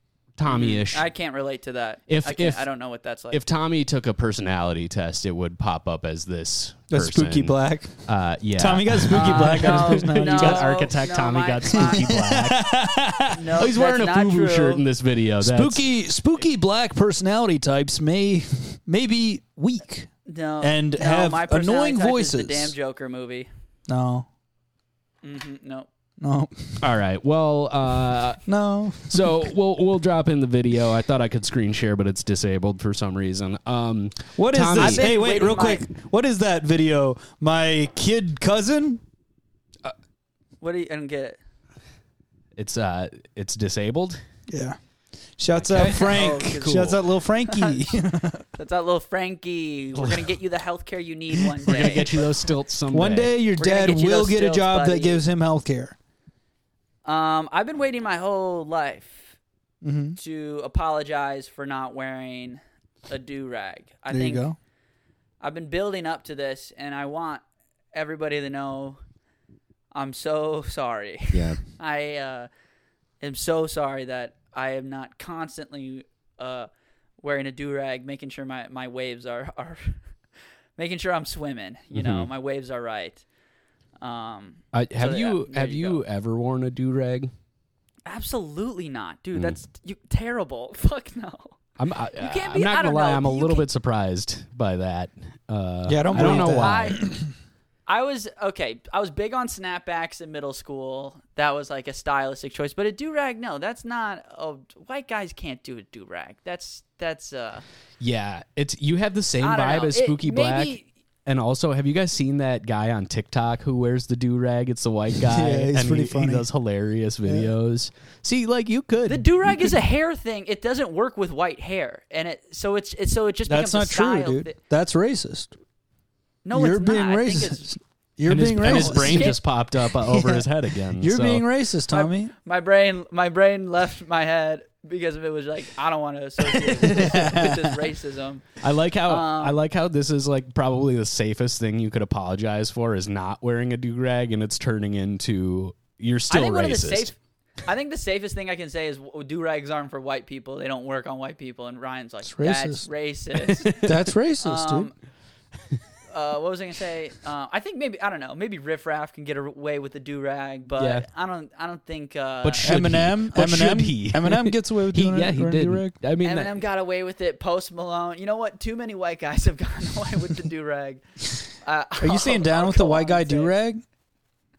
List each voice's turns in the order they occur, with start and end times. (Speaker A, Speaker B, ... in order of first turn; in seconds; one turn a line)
Speaker A: 0.4-1.1
Speaker B: 0.5-3.4
Speaker A: 2.1-2.7
Speaker A: 3.3-12.7
Speaker C: 6.9-8.0
Speaker C: 8.6-10.7
Speaker B: 9.1-12.2
Speaker C: 11.8-13.5
Speaker B: 13.3-14.8
Speaker A: 13.6-15.8
Speaker C: 15.4-20.1
Speaker B: 20.3-23.5
Speaker C: 20.6-22.8
Speaker C: 23.9-24.3
Speaker B: 25.2-25.9
Speaker C: 26.2-26.9
Speaker A: 26.8-28.5
Speaker C: 28.5-29.5
Speaker A: 29.1-35.1
Speaker C: 34.4-39.0
Speaker B: 34.8-35.9
Speaker B: 40.6-41.4
Speaker A: 42.6-44.2
Speaker C: 44.5-44.8
Speaker C: 45.4-48.5
Speaker A: 45.5-47.1
Speaker B: 45.9-48.0
Speaker B: 48.5-52.1
Speaker A: 50.0-50.3
Speaker A: 51.7-53.3
Speaker C: 51.8-52.1
Speaker C: 52.9-56.0
Speaker B: 53.6-55.2
Speaker B: 57.0-59.4
Speaker C: 59.8-60.2
Speaker B: 60.2-64.5
Speaker C: 64.1-64.6
Speaker B: 65.4-69.0
Speaker B: 69.9-72.5
Speaker A: 71.3-71.6
Speaker B: 73.2-80.0
Speaker B: 80.8-83.2
Speaker A: 81.9-82.3
Speaker B: 84.0-86.0
Speaker A: 84.7-87.3
Speaker B: 88.1-91.6
Speaker A: 91.8-97.0
Speaker B: 92.2-93.7
Speaker C: 95.9-97.1
Speaker B: 96.1-97.1
Speaker B: 97.9-107.6
Speaker A: 108.0-119.8
Speaker B: 109.4-110.9
Speaker C: 115.2-116.5
Speaker C: 117.2-117.5
Speaker B: 119.1-124.6
Speaker C: 123.5-125.5
Speaker B: 126.5-127.8
Speaker C: 126.5-129.4
Speaker A: 128.3-131.4
Speaker B: 128.6-129.4
Speaker C: 129.9-132.3
Speaker B: 131.9-138.5
Speaker C: 136.9-137.6
Speaker A: 136.9-137.3
Speaker A: 138.6-147.1
Speaker B: 139.1-139.6
Speaker B: 146.3-154.9
Speaker C: 152.2-152.9
Speaker A: 153.5-154.0
Speaker C: 153.8-154.9
Speaker B: 156.1-162.7
Speaker A: 160.8-161.1
Speaker A: 162.4-166.6
Speaker C: 162.6-165.9
Speaker B: 166.2-173.5
Speaker C: 172.0-173.8